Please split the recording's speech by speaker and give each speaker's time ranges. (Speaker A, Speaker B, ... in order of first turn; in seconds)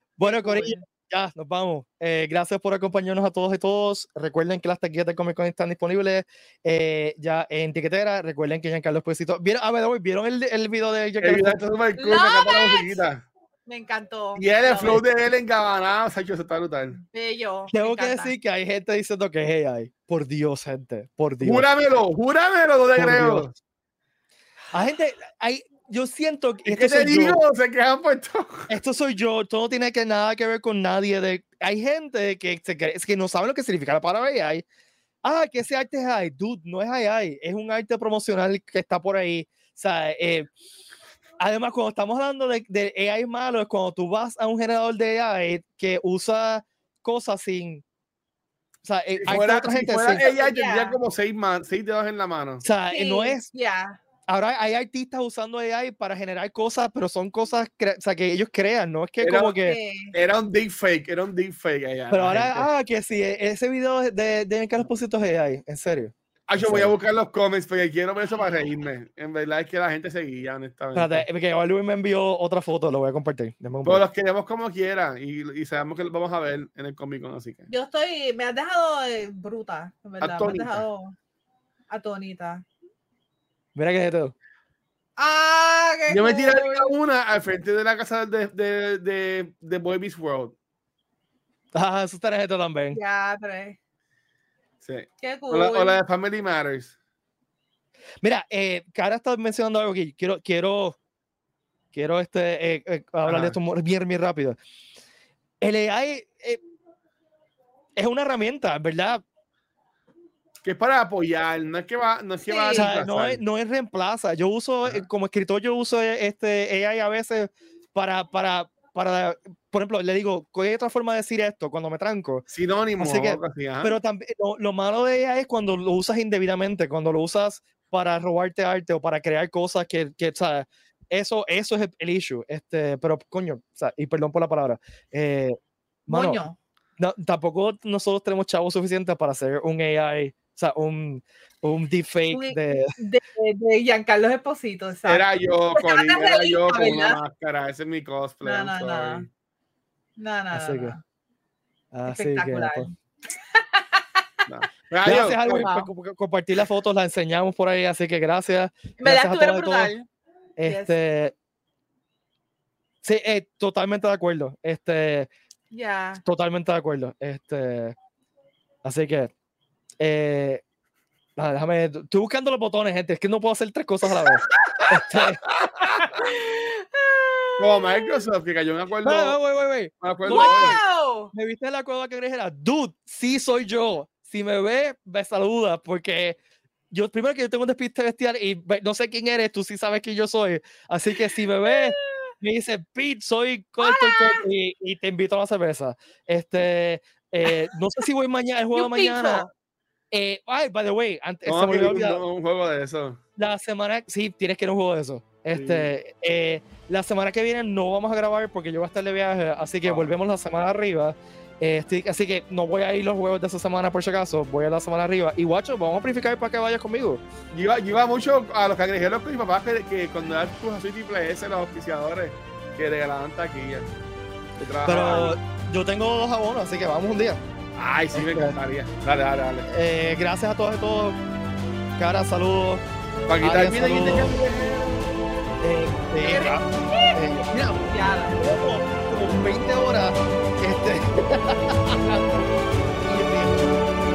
Speaker A: 0.2-11.6, 17.7-21.7, 23.0-23.5, 24.7-27.4, 28.7-34.6, 35.2-40.5, 41.4-47.8, 48.8-50.2, 52.6-53.5, 54.3-59.8, 62.1-66.9, 70.9-74.0, 83.8-84.3, 91.7-93.0, 98.2-101.0, 101.9-104.6, 105.6-106.6, 108.0-109.2, 112.7-122.5, 123.0-136.4, 137.0-143.0, 150.5-150.9, 151.9-152.9, 155.1-159.9, 160.6-161.3, 163.0-165.3, 166.2-168.0, 168.8-169.3, 170.0-170.6, 171.4-175.4, 179.0-180.8, 181.3-186.4, 186.9-199.5, 200.1-202.2, 203.4-217.2, 224.8-227.4, 228.1-228.6, 229.7-231.2, 232.0-232.9, 233.4-234.4, 235.6-242.5, 243.0-243.8
Speaker B: 0.2-0.8, 12.0-13.0, 13.7-15.0, 17.0-18.3, 50.2-51.0, 52.9-54.0, 59.6-60.1, 77.7-81.2, 81.9-82.7, 85.2-86.9, 92.9-93.8, 95.2-96.0, 112.5-112.9, 136.1-136.6, 142.3-147.2, 148.4-149.2, 150.2-151.0, 152.1-152.9, 153.5-154.2, 155.4-155.9, 159.0-160.1, 160.7-160.9, 165.7-166.2, 175.8-178.2, 180.3-181.3, 191.7-192.3, 193.8-194.4, 198.7-199.5, 225.0-225.3, 236.2-237.2, 237.9-238.4
Speaker C: 11.2-13.2, 14.4-17.0, 21.4-23.5, 26.7-28.7, 49.2-52.6, 59.2-59.6, 60.1-62.7, 66.5-71.3, 73.8-77.7, 80.2-80.8, 86.1-90.5, 94.8-96.9, 103.2-103.6, 110.6-113.4, 122.5-124.0, 145.1-149.3, 154.5-155.7, 175.4-175.9, 177.6-179.4, 180.0-180.8, 201.5-203.2, 205.5-205.9, 209.8-210.1, 217.5-223.9, 224.6-225.3, 227.8-229.7, 233.3-235.1